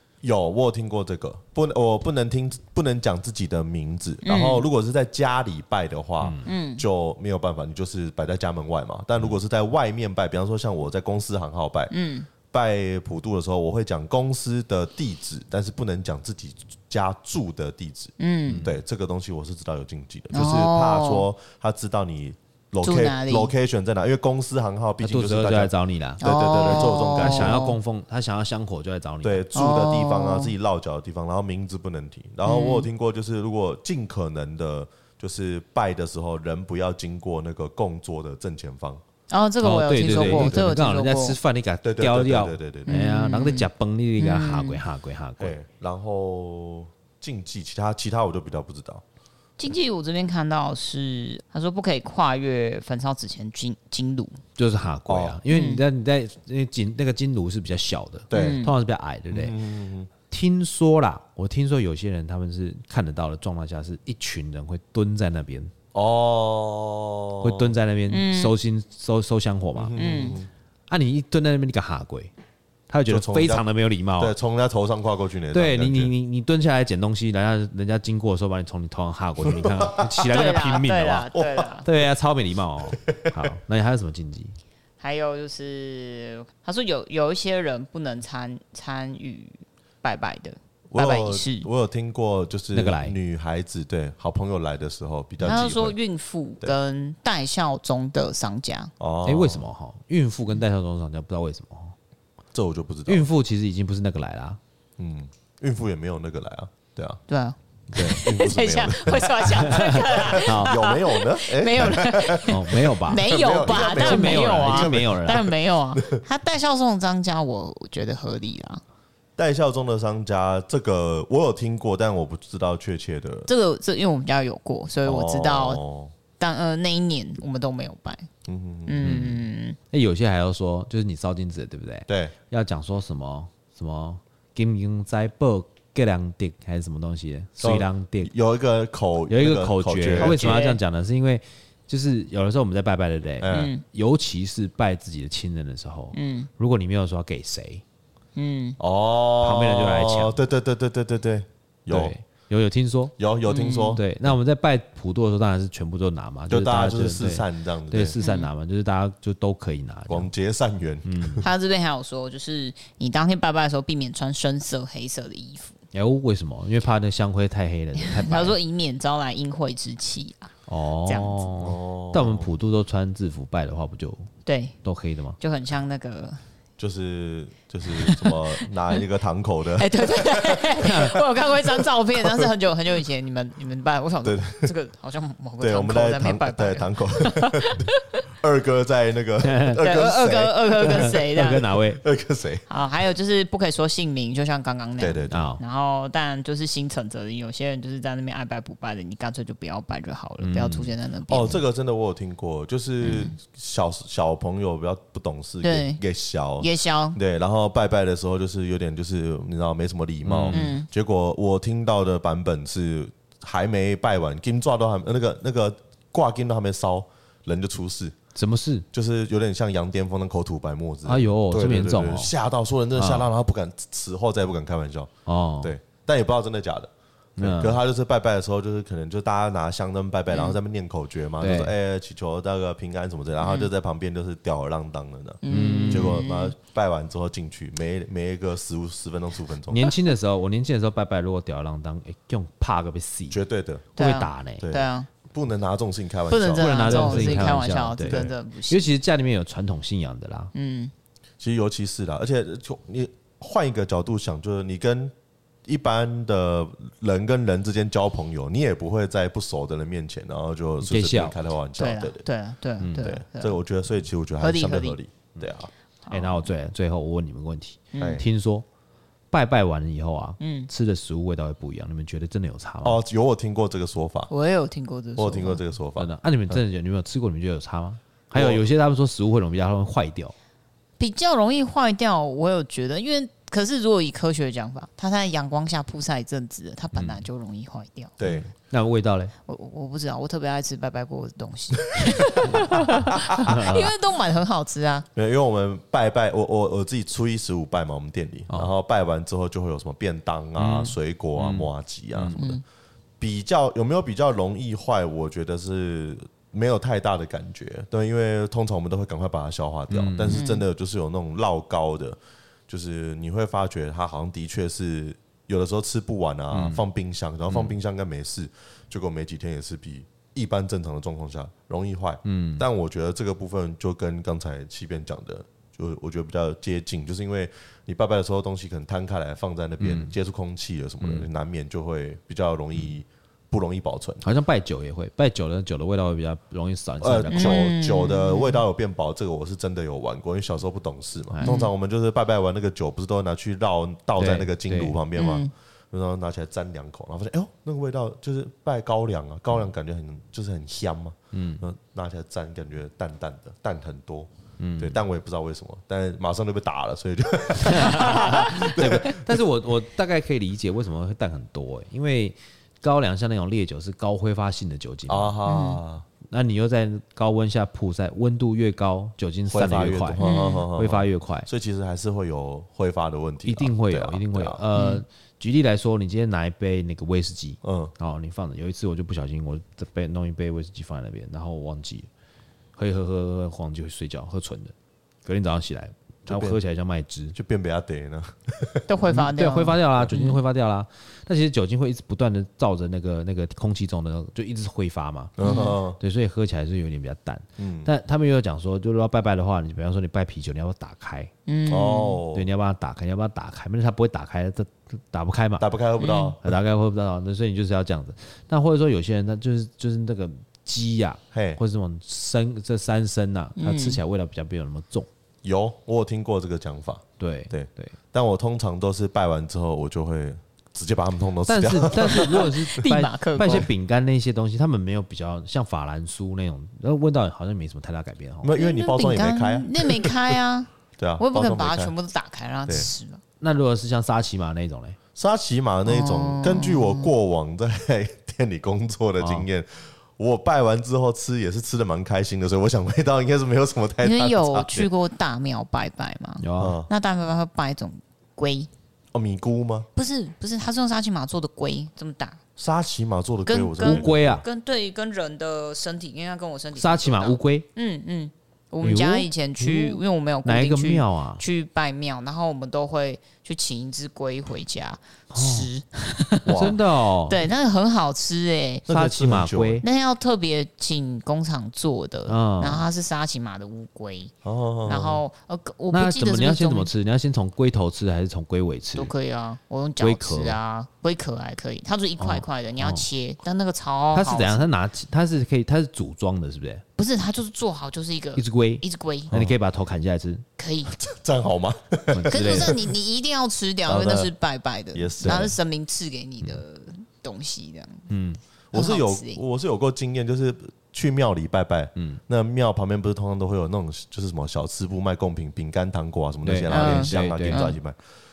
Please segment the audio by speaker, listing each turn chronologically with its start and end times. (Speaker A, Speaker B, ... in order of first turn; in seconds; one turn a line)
Speaker A: 0.2-11.9
Speaker B: 4.2-4.6
Speaker C: 6.2-6.5
Speaker B: 6.4-6.8
Speaker B: 11.9-12.3
Speaker A: 12.4-27.6
Speaker B: 18.2-18.6
Speaker C: 18.5-18.7
Speaker B: 20.3-21.2
Speaker B: 22.8-23.5
Speaker C: 25.0-29.5
Speaker B: 26.2-27.8
Speaker A: 29.2-39.0
Speaker B: 29.5-30.5
Speaker B: 32.4-32.9
Speaker B: 39.3-41.4
Speaker C: 39.6-45.6
Speaker A: 40.0-40.7
Speaker A: 41.8-43.0
Speaker B: 42.9-44.8
Speaker A: 45.4-49.0
Speaker B: 49.6-54.4
Speaker C: 54.6-59.5
Speaker A: 55.1-55.4
Speaker B: 55.5-55.8
Speaker A: 58.3-58.6
Speaker B: 58.3-58.7
Speaker A: 59.3-60.1
Speaker C: 60.3-65.7
Speaker A: 65.9-67.7
Speaker C: 67.4-70.0
Speaker B: 68.1-68.5
Speaker A: 69.8-70.5
Speaker B: 70.0-70.4
Speaker C: 70.9-72.3
Speaker C: 72.9-74.3
Speaker A: 73.1-73.6
Speaker A: 74.2-76.1
Speaker C: 75.5-81.3
Speaker A: 79.4-80.5
Speaker B: 80.3-81.8
Speaker A: 81.3-81.7
Speaker C: 81.8-84.5
Speaker A: 82.8-83.6
Speaker B: 85.0-91.7
Speaker A: 90.9-96.0
Speaker C: 92.7-93.2
Speaker B: 95.5-98.9
Speaker A: 99.0-99.7
Speaker C: 99.2-101.9
Speaker A: 102.5-103.3
Speaker C: 103.1-104.6
Speaker A: 105.0-107.2
Speaker B: 107.3-118.8
Speaker A: 107.9-116.2
Speaker C: 107.9-108.2
Speaker C: 109.6-110.7
Speaker C: 112.5-115.4
Speaker A: 119.4-123.5
Speaker B: 123.5-125.8
Speaker A: 125.0-126.1
Speaker B: 126.4-128.3
Speaker A: 128.4-129.3
Speaker B: 128.8-129.8
Speaker C: 129.0-138.3
Speaker A: 132.1-132.3
Speaker A: 137.6-140.6
Speaker C: 139.3-147.8
Speaker B: 140.2-140.8
Speaker A: 143.4-143.7
Speaker B: 143.5-143.8
Speaker B: 146.1-146.5
Speaker B: 148.3-148.8
Speaker A: 148.8-152.1
Speaker C: 149.4-150.4
Speaker C: 151.9-153.1
Speaker A: 153.2-154.3
Speaker B: 153.5-154.0
Speaker C: 153.9-160.3
Speaker A: 156.5-158.2
Speaker B: 158.2-158.5
Speaker A: 160.1-161.5
Speaker C: 161.0-161.4
Speaker B: 161.4-165.8
Speaker C: 165.9-168.5
Speaker B: 168.0-170.5
Speaker C: 170.7-174.3
Speaker B: 171.1-171.5
Speaker A: 171.6-172.5
Speaker B: 174.4-174.8
Speaker C: 174.8-175.4
Speaker B: 175.4-176.4
Speaker A: 176.8-182.5
Speaker B: 177.9-179.0
Speaker B: 179.8-188.0
Speaker C: 180.8-181.1
Speaker A: 184.2-184.7
Speaker A: 185.6-192.6
Speaker C: 189.4-189.8
Speaker B: 189.8-191.7
Speaker C: 190.8-192.0
Speaker B: 192.7-201.6
Speaker A: 195.0-195.5
Speaker C: 195.3-195.6
Speaker C: 200.4-200.9
Speaker A: 201.3-218.2
Speaker B: 203.0-203.3
Speaker B: 205.6-206.0
Speaker B: 206.6-207.2
Speaker C: 210.2-210.7
Speaker B: 210.5-210.9
Speaker C: 218.3-218.8
Speaker A: 218.9-239.9
Speaker C: 221.0-222.3
Speaker C: 222.9-223.3
Speaker C: 225.2-225.7
Speaker C: 227.4-227.8
Speaker B: 230.3-230.6
Speaker C: 231.4-231.7
Speaker B: 233.4-233.7
Speaker B: 235.4-236.5
Speaker C: 235.5-236.2
Speaker C: 239.7-243.4
Speaker A: 243.3-244.0
Speaker C: 243.9-244.7
Speaker B: 243.9-245.1
Speaker A: 244.6-248.3
Speaker B: 246.3-248.9
Speaker C: 246.5-250.5
Speaker B: 250.5-250.9
Speaker A: 251.4-255.1
Speaker A: 255.6-262.2
Speaker C: 260.8-261.4
Speaker B: 261.8-263.6
Speaker C: 262.8-263.1
Speaker A: 262.9-265.7
Speaker B: 264.4-265.0
Speaker B: 266.0-266.5
Speaker C: 266.1-268.6
Speaker B: 267.9-268.2
Speaker A: 267.9-268.2
Speaker C: 269.3-273.0
Speaker B: 270.4-270.7
Speaker A: 272.8-274.3
Speaker B: 274.3-275.6
Speaker A: 275.2-276.6
Speaker C: 276.0-280.3
Speaker A: 278.3-278.6
Speaker B: 281.0-288.1
Speaker C: 286.9-287.2
Speaker A: 288.2-288.4
Speaker C: 288.2-289.3
Speaker B: 289.5-295.1
Speaker A: 292.1-292.6
Speaker C: 292.4-293.9
Speaker A: 293.1-293.6
Speaker A: 295.1-302.6
Speaker C: 300.6-302.4
Speaker B: 302.3-302.6
Speaker A: 303.2-334.2
Speaker C: 309.9-310.4
Speaker B: 310.3-310.6
Speaker C: 316.5-316.8
Speaker C: 317.5-317.7
Speaker C: 322.2-322.6
Speaker C: 329.8-330.1
Speaker C: 331.0-331.2
Speaker C: 334.2-337.6
Speaker A: 337.0-359.3
Speaker B: 337.3-338.6
Speaker B: 341.4-341.7
Speaker C: 344.1-345.0
Speaker B: 345.1-345.5
Speaker C: 351.3-351.6
Speaker C: 354.6-355.0
Speaker C: 357.6-365.4
Speaker B: 358.0-358.5
Speaker A: 365.1-366.0
Speaker B: 365.5-365.8
Speaker C: 366.3-371.5
Speaker A: 369.5-374.6
Speaker B: 370.2-370.6
Speaker C: 373.4-382.1
Speaker B: 374.8-375.0
Speaker A: 377.6-377.9
Speaker C: 382.8-384.7
Speaker C: 385.2-387.3
Speaker A: 386.3-386.6
Speaker A: 387.3-389.1
Speaker B: 388.9-390.4
Speaker C: 389.1-395.3
Speaker A: 395.4-396.0
Speaker B: 395.4-395.8
Speaker C: 396.0-401.3
Speaker A: 397.6-397.9
Speaker B: 401.4-402.2
Speaker A: 401.7-402.4
Speaker C: 402.3-405.7
Speaker A: 405.6-406.5
Speaker B: 406.0-406.3
Speaker C: 406.4-415.1
Speaker A: 411.3-411.6
Speaker B: 413.6-414.0
Speaker A: 415.4-422.5
Speaker C: 417.2-417.9
Speaker C: 421.5-428.5
Speaker B: 422.0-423.7
Speaker A: 428.4-430.4
Speaker B: 428.5-433.2
Speaker A: 431.0-431.9
Speaker C: 433.4-435.0
Speaker A: 435.1-444.7
Speaker B: 435.9-437.1
Speaker C: 439.2-439.5
Speaker B: 444.0-448.7
Speaker C: 446.4-446.8
Speaker A: 446.6-446.9
Speaker A: 449.1-449.9
Speaker B: 449.9-452.4
Speaker A: 452.6-454.4
Speaker B: 453.5-468.9
Speaker C: 453.8-454.4
Speaker C: 456.7-457.6
Speaker C: 458.8-461.4
Speaker C: 465.3-465.7
Speaker A: 466.4-466.8
Speaker C: 466.5-467.4
Speaker A: 468.9-469.8
Speaker C: 468.9-469.8
Speaker B: 469.8-474.3
Speaker C: 472.3-472.9
Speaker A: 474.4-475.2
Speaker B: 474.9-476.9
Speaker C: 475.9-479.1
Speaker B: 478.9-484.6
Speaker C: 480.0-480.6
Speaker C: 482.2-483.1
Speaker C: 484.1-486.8
Speaker B: 487.0-489.3
Speaker C: 488.4-490.4
Speaker A: 489.3-489.5
Speaker B: 490.6-490.9
Speaker A: 490.9-492.9
Speaker C: 492.1-492.8
Speaker B: 492.3-498.1
Speaker A: 493.9-494.3
Speaker A: 494.9-495.6
Speaker C: 498.1-498.4
Speaker A: 498.7-508.0
Speaker B: 498.7-499.4
Speaker C: 506.4-507.7
Speaker B: 506.7-507.8